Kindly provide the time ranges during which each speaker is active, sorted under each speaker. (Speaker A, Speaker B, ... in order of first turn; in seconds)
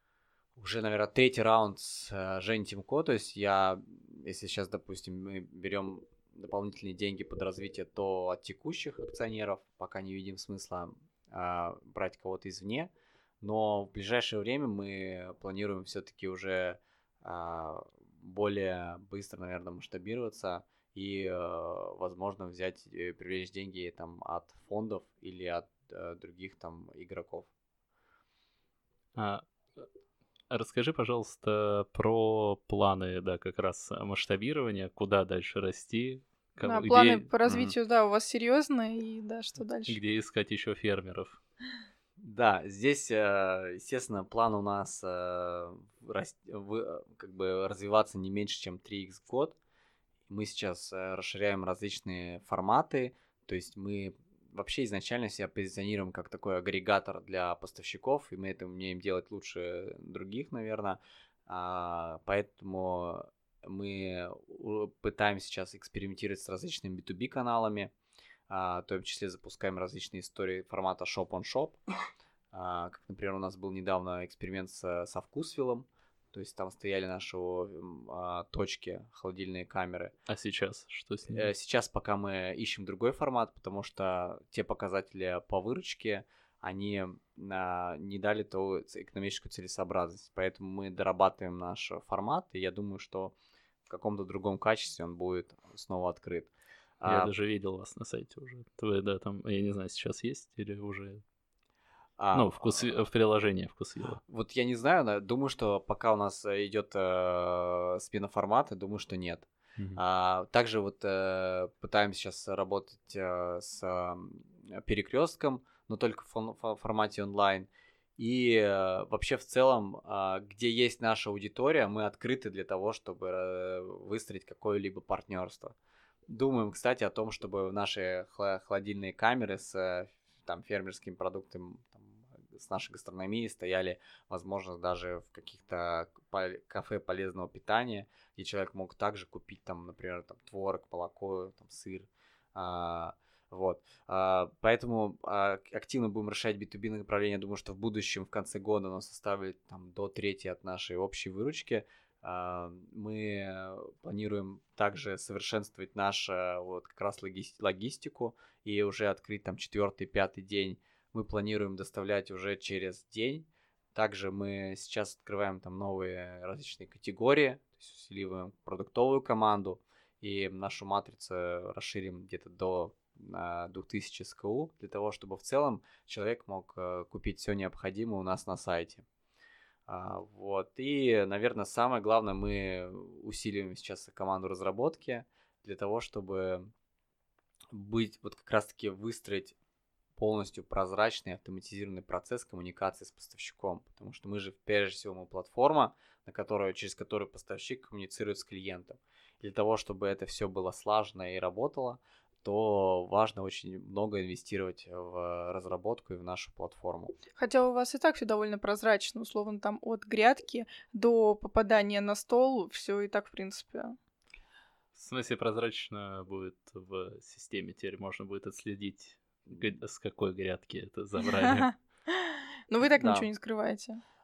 Speaker A: 0.6-27.5, 37.5-37.8, 42.2-49.6, 50.3-67.9, 68.5-71.8, 72.5-80.1, 81.3-93.3, 93.9-97.3, 102.2-103.0, 104.3-125.8, 126.3-179.1, 179.9-186.7, 187.7-189.6, 190.2-207.2, 223.0-223.3
Speaker B: 29.2-29.9, 30.5-37.3, 39.9-41.4, 80.3-81.5, 97.1-101.2, 102.3-104.2, 214.9-221.7
Speaker C: 36.6-40.0, 207.4-214.0, 221.4-224.0